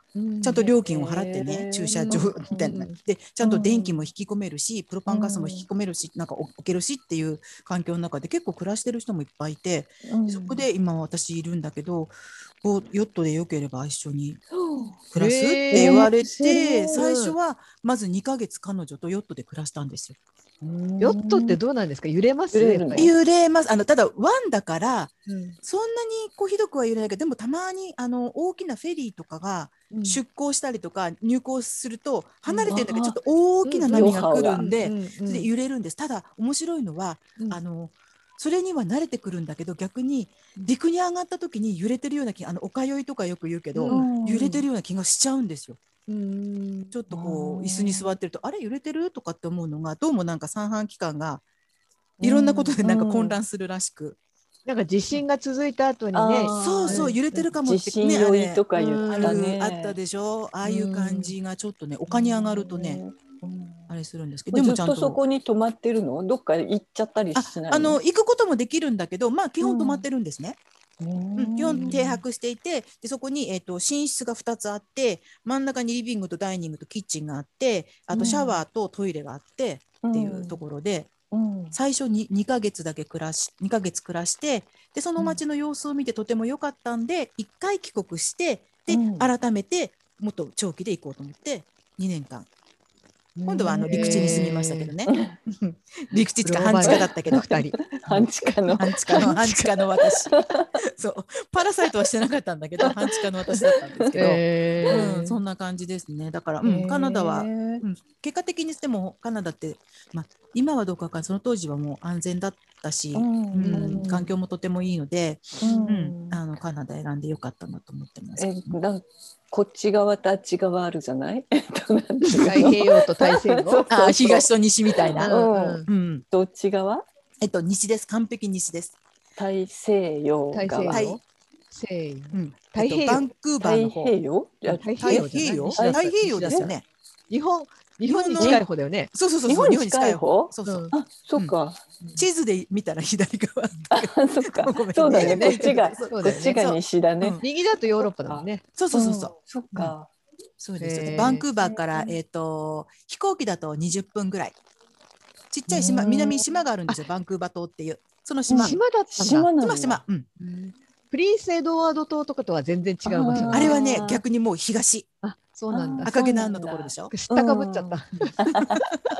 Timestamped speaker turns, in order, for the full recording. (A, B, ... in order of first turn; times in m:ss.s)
0:00.1-0:00.7 A
0:00.4-0:14.4 B
0:00.7-0:02.6 C
0:02.0-0:03.0 A
0:03.4-0:04.0 C
0:05.1-0:05.6 C
0:10.1-0:10.6 C
0:14.5-0:15.0 C
0:15.1-0:20.2 B
0:15.1-0:17.4 A
0:15.7-0:17.0 C
0:20.6-0:21.6 C
0:21.0-0:23.1 A
0:22.5-0:23.1 C
0:23.0-0:45.8 B
0:25.3-0:25.6 A
0:29.9-0:30.2 A
0:32.4-0:32.8 A
0:32.7-0:33.2 C
0:33.6-0:35.5 A
0:33.9-0:34.7 C
0:43.7-0:44.1 A
0:43.9-0:44.6 C
0:46.1-0:46.9 A
0:46.9-0:51.4 B
0:47.1-0:48.1 C
0:52.2-0:53.4 C
0:52.2-0:54.2 B
0:54.6-0:57.5 A
0:56.1-1:00.0 C
0:56.5-1:03.0 B
0:58.8-0:59.5 A
1:00.6-1:01.3 A
1:02.1-1:03.9 C
1:03.9-1:05.2 B
1:04.5-1:08.0 C
1:07.3-1:10.6 B
1:09.6-1:10.0 C
1:11.0-1:12.2 C
1:11.4-1:21.1 B
1:18.1-1:18.6 C
1:20.0-1:20.6 C
1:21.3-1:21.8 C
1:21.7-1:32.5 B
1:28.9-1:29.3 C
1:33.4-1:34.5 C
1:33.4-1:37.5 B
1:33.8-1:34.9 A
1:35.1-1:35.3 C
1:36.4-1:37.8 A
1:36.8-1:40.7 C
1:38.8-1:58.8 B
1:42.8-1:44.2 C
1:44.2-1:45.4 A
1:44.9-1:45.2 C
1:46.6-1:47.8 C
1:53.1-1:54.2 C
1:53.7-1:54.3 A
1:55.6-1:56.4 C
1:55.6-1:56.0 A
1:58.4-2:07.0 C
2:02.4-2:03.8 A
2:02.4-2:02.8 B
2:03.9-2:05.3 B
2:05.2-2:05.8 A
2:05.8-2:06.2 B
2:07.4-2:09.0 B
2:09.4-2:11.1 C
2:10.5-2:13.3 A
2:10.8-2:11.2 B
2:12.3-2:16.8 B
2:13.6-2:16.7 C
2:14.8-2:16.7 A
2:17.3-2:19.1 A
2:18.1-2:21.5 B
2:18.4-2:18.6 C
2:19.4-2:21.8 C
2:20.6-2:20.9 A
2:22.2-2:27.4 B
2:23.9-2:27.4 C
2:25.1-2:26.6 A
2:27.4-2:28.6 A
2:28.0-2:30.1 C
2:28.8-2:29.9 B
2:30.6-2:34.6 B
2:30.8-2:31.4 A
2:31.1-2:32.2 C
2:35.5-2:40.6 B
2:35.7-2:37.0 A
2:38.5-2:40.0 C
2:38.5-2:39.5 A
2:40.5-2:44.2 A
2:43.0-2:44.2 C
2:43.5-2:45.1 B
2:45.2-2:46.2 A
2:45.7-2:48.8 C
2:46.0-2:47.1 B
2:47.1-2:48.4 A
2:48.2-2:48.9 B